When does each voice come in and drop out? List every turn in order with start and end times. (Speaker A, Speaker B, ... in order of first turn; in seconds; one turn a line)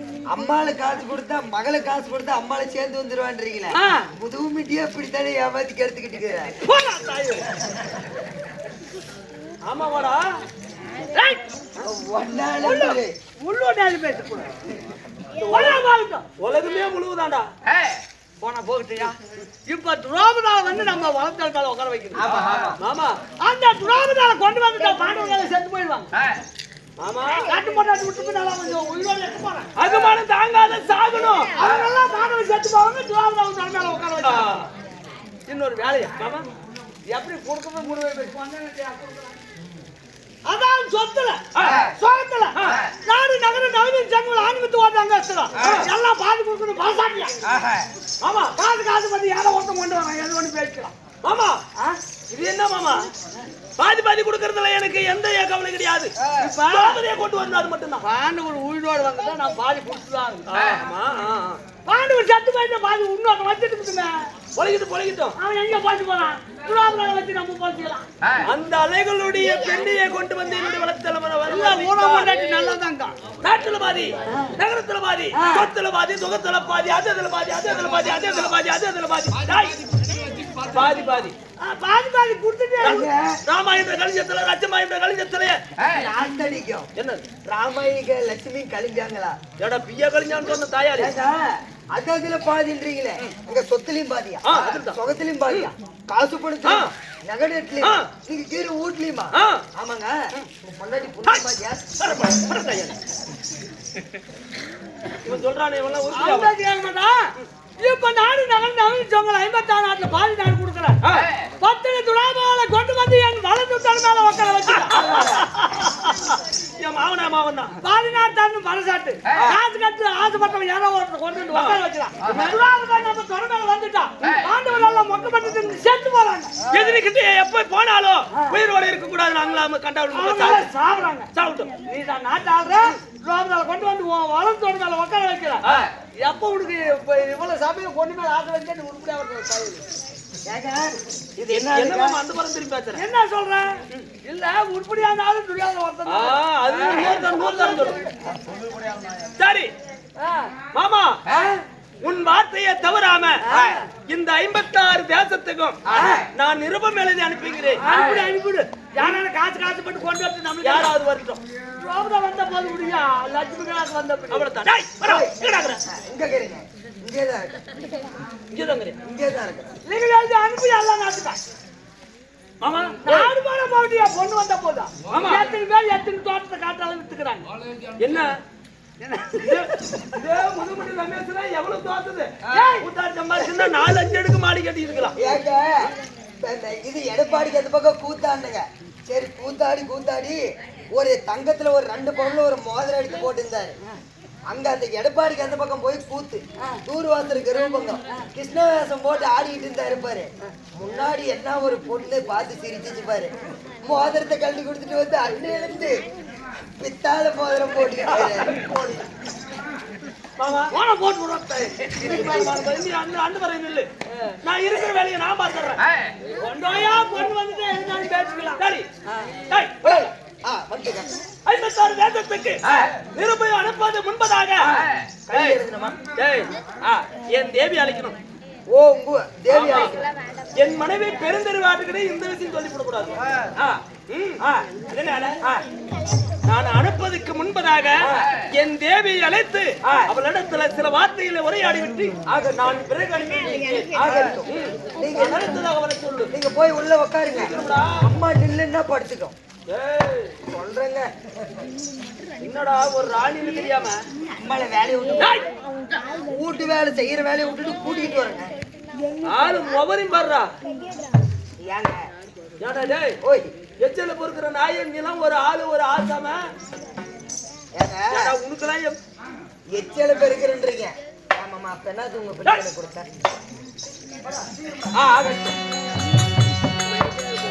Speaker A: 0.3-6.5
Speaker B: 3.7-4.1
Speaker B: 6.6-7.4
Speaker C: 9.6-10.2
Speaker B: 11.1-11.4
Speaker A: 11.8-13.1
Speaker B: 12.6-14.5
Speaker C: 15.4-15.8
Speaker B: 15.5-16.2
Speaker C: 16.4-17.5
Speaker B: 18.4-22.2
Speaker A: 22.1-22.8
Speaker C: 22.8-23.2
Speaker B: 23.4-26.1
Speaker C: 27.0-27.6
Speaker B: 27.4-29.7
Speaker C: 29.8-31.6
Speaker B: 31.5-34.6
Speaker C: 34.2-34.7
Speaker B: 35.5-36.1
Speaker C: 36.1-36.5
Speaker B: 37.1-39.4
Speaker B: 40.5-47.3
Speaker C: 41.5-41.9
Speaker C: 42.5-42.9
Speaker C: 45.6-45.9
Speaker A: 47.4-47.9
Speaker C: 48.2-48.5
Speaker B: 48.6-50.9
Speaker C: 51.2-51.6
Speaker C: 52.3-53.0
Speaker C: 53.8-58.0
Speaker B: 56.4-57.0
Speaker B: 58.0-60.5
Speaker C: 60.5-61.6
Speaker B: 61.9-64.1
Speaker C: 64.5-65.4
Speaker B: 65.4-68.0
Speaker C: 68.3-72.3
Speaker B: 71.5-73.1
Speaker C: 73.4-79.8
Speaker B: 75.3-75.7
Speaker C: 80.6-81.3
Speaker B: 81.6-83.1
Speaker C: 82.8-85.6
Speaker A: 82.8-83.3
Speaker A: 85.8-86.9
Speaker C: 87.0-87.2
Speaker A: 87.5-89.4
Speaker C: 89.6-91.1
Speaker A: 91.0-101.8
Speaker C: 94.4-95.0
Speaker C: 96.6-96.9
Speaker C: 97.8-98.1
Speaker C: 99.3-99.6
Speaker C: 102.0-103.0
Speaker C: 105.2-106.5
Speaker B: 106.1-107.2
Speaker B: 107.8-111.0
Speaker C: 111.0-111.3
Speaker B: 111.6-115.4
Speaker C: 114.7-117.8
Speaker B: 117.8-126.6
Speaker C: 121.5-122.6
Speaker C: 126.7-130.7
Speaker B: 130.1-131.3
Speaker C: 131.3-131.7
Speaker B: 131.8-139.8
Speaker A: 140.5-142.2
Speaker C: 141.5-143.0
Speaker B: 142.9-148.1
Speaker C: 146.1-148.0
Speaker C: 149.4-149.7
Speaker B: 150.2-150.5
Speaker C: 150.7-151.2
Speaker C: 152.0-158.2
Speaker B: 153.4-153.9
Speaker A: 155.8-156.2
Speaker B: 155.9-156.2
Speaker B: 157.8-160.9
Speaker A: 157.9-158.2
Speaker C: 160.6-161.4
Speaker B: 161.8-164.5
Speaker C: 164.3-165.8
Speaker A: 165.0-167.6
Speaker C: 168.5-169.0
Speaker A: 169.0-169.8
Speaker B: 169.8-171.4
Speaker C: 172.6-173.3
Speaker B: 173.0-177.4
Speaker C: 175.1-175.5
Speaker C: 178.0-178.3
Speaker B: 179.0-179.7
Speaker C: 179.4-185.2
Speaker B: 182.5-182.8
Speaker A: 185.2-190.4
Speaker A: 190.9-193.8
Speaker A: 194.5-206.0
Speaker A: 206.8-208.6
Speaker C: 208.1-208.9
Speaker C: 210.4-210.7
Speaker B: 210.7-212.4
Speaker C: 212.0-213.9
Speaker B: 214.1-214.3
Speaker C: 214.4-215.8
Speaker B: 216.3-219.3
Speaker C: 218.6-218.9
Speaker C: 219.5-220.1
Speaker A: 219.8-221.1
Speaker C: 221.4-224.7
Speaker A: 224.6-226.0
Speaker C: 225.3-225.6
Speaker C: 226.2-228.2
Speaker A: 228.7-230.0
Speaker C: 229.5-230.0
Speaker C: 230.6-235.4
Speaker A: 234.4-234.7
Speaker C: 236.4-246.3
Speaker A: 238.0-238.3
Speaker A: 239.8-240.1
Speaker A: 242.3-242.6
Speaker A: 243.9-245.5
Speaker A: 246.3-249.3
Speaker C: 247.3-248.0
Speaker C: 249.7-250.3
Speaker A: 250.5-251.1
Speaker C: 252.4-254.0
Speaker A: 254.4-255.4
Speaker C: 255.2-255.5
Speaker A: 256.2-258.5
Speaker C: 259.2-260.5
Speaker A: 261.6-262.1
Speaker C: 262.6-263.2
Speaker A: 263.2-263.5
Speaker C: 263.8-266.4
Speaker A: 267.8-268.3
Speaker C: 268.1-269.0
Speaker A: 269.7-273.1
Speaker B: 274.2-274.9
Speaker A: 274.9-275.5